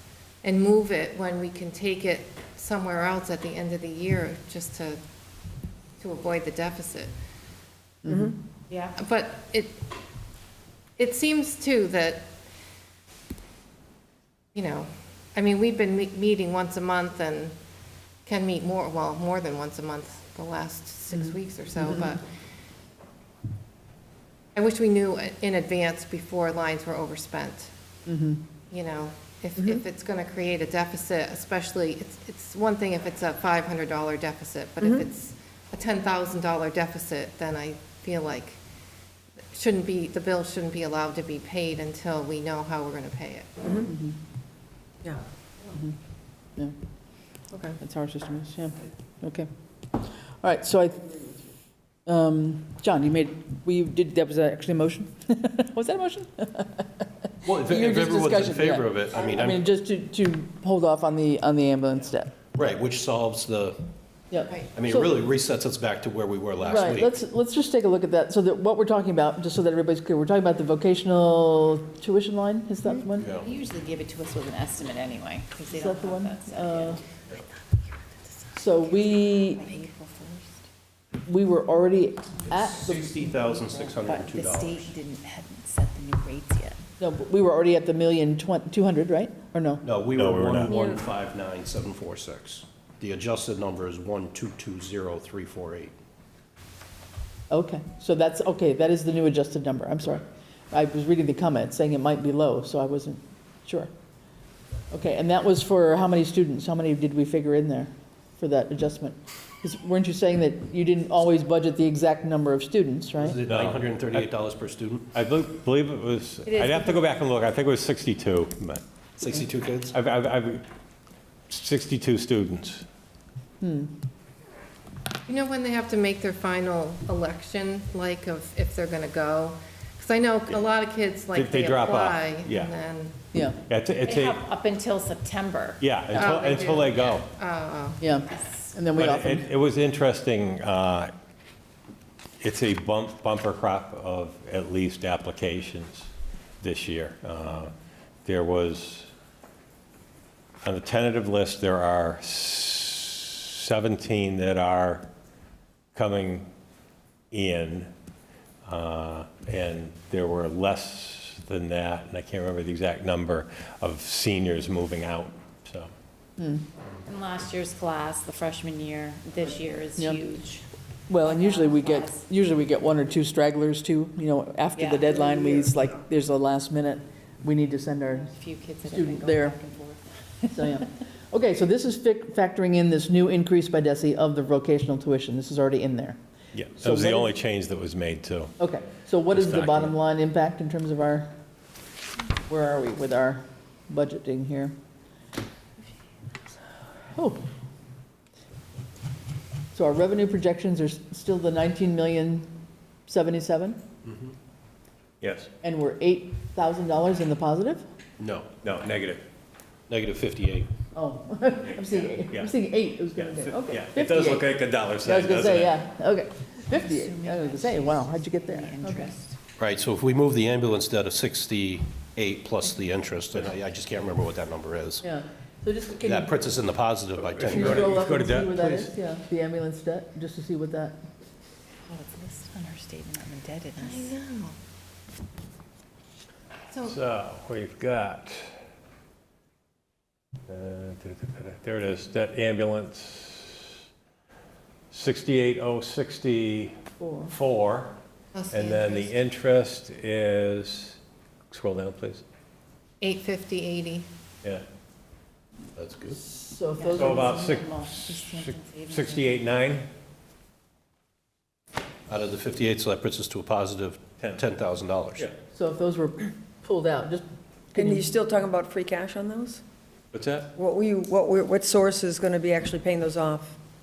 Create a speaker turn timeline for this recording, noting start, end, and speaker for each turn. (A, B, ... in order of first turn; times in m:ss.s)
0:00.4-0:05.0 A
0:06.0-0:07.1 A
0:08.0-0:08.3 B
0:08.1-0:08.4 C
0:08.7-0:09.0 D
0:09.0-0:09.8 A
0:11.0-0:12.3 A
0:14.6-0:17.5 A
0:18.3-0:22.2 A
0:21.8-0:22.2 B
0:24.6-0:27.7 A
0:28.1-0:28.4 B
0:28.7-0:38.6 A
0:34.8-0:35.1 C
0:39.5-0:43.5 A
0:43.8-0:44.2 B
0:45.7-0:46.0 B
0:47.5-0:47.8 C
0:47.8-0:51.4 B
0:52.1-1:02.3 B
0:57.4-0:59.6 E
1:02.6-1:03.8 E
1:04.3-1:05.2 B
1:04.8-1:07.2 E
1:06.6-1:13.3 B
1:13.2-1:13.5 E
1:13.3-1:20.6 D
1:15.7-1:17.0 B
1:18.6-1:19.6 B
1:21.3-1:23.2 B
1:22.5-1:24.9 E
1:23.5-1:26.8 D
1:27.0-1:29.8 B
1:29.8-1:36.0 E
1:30.2-1:30.8 F
1:30.7-1:31.0 C
1:37.5-1:43.9 B
1:44.9-1:53.4 B
1:53.2-1:55.1 E
1:53.5-1:54.3 F
1:55.1-1:58.8 F
1:56.5-1:57.0 D
1:59.2-1:59.9 E
1:59.9-2:00.6 F
2:01.5-2:02.9 F
2:03.6-2:03.9 B
2:05.3-2:13.2 A
2:11.3-2:12.7 F
2:13.3-2:13.6 B
2:13.7-2:14.4 F
2:14.0-2:15.8 D
2:15.8-2:17.3 F
2:16.1-2:18.0 A
2:18.0-2:19.5 B
2:18.3-2:18.8 D
2:19.0-2:21.1 F
2:22.4-2:26.1 F
2:26.6-2:27.7 F
2:28.2-2:29.1 F
2:30.6-2:35.1 F
2:36.0-2:36.5 F
2:37.3-2:37.9 F
2:38.7-2:45.9 F
2:46.4-2:46.6 B
2:47.1-2:50.6 D
2:51.1-2:58.3 B
2:51.2-2:52.2 D
2:54.8-2:55.7 D
2:58.1-3:00.7 D
2:58.8-2:59.6 B
3:00.5-3:06.2 B
3:06.5-3:08.5 F
3:06.8-3:07.3 B
3:08.6-3:11.3 B
3:09.3-3:10.0 F
3:12.5-3:14.8 B
3:17.1-3:17.4 B
3:19.7-3:22.5 B
3:23.1-3:23.8 B
3:24.1-3:24.3 E
3:25.2-3:25.5 F
3:25.6-3:27.9 B
3:28.2-3:28.5 E
3:28.6-3:29.2 F
3:29.9-3:30.7 E
3:30.9-3:34.5 B
3:33.2-3:35.8 F
3:35.0-3:39.2 B
3:36.7-3:39.4 D
3:39.6-3:45.0 E
3:45.0-3:46.5 B
3:46.0-3:47.9 E
3:47.2-3:48.9 F
3:47.5-3:51.1 B
3:51.9-3:54.2 D
3:53.8-3:54.6 A
3:56.8-3:58.6 F
4:00.5-4:03.8 F
4:04.9-4:08.0 F
4:07.0-4:07.3 B
4:08.3-4:09.1 A
4:08.5-4:11.0 F
4:11.5-4:12.2 F
4:13.0-4:14.1 A
4:15.8-4:16.2 E
4:16.1-4:17.6 B
4:16.8-4:19.4 D
4:17.0-4:19.9 F
4:22.1-4:25.3 E
4:25.5-4:28.2 B
4:27.8-4:29.6 C
4:30.1-4:30.5 F
4:30.6-4:33.6 C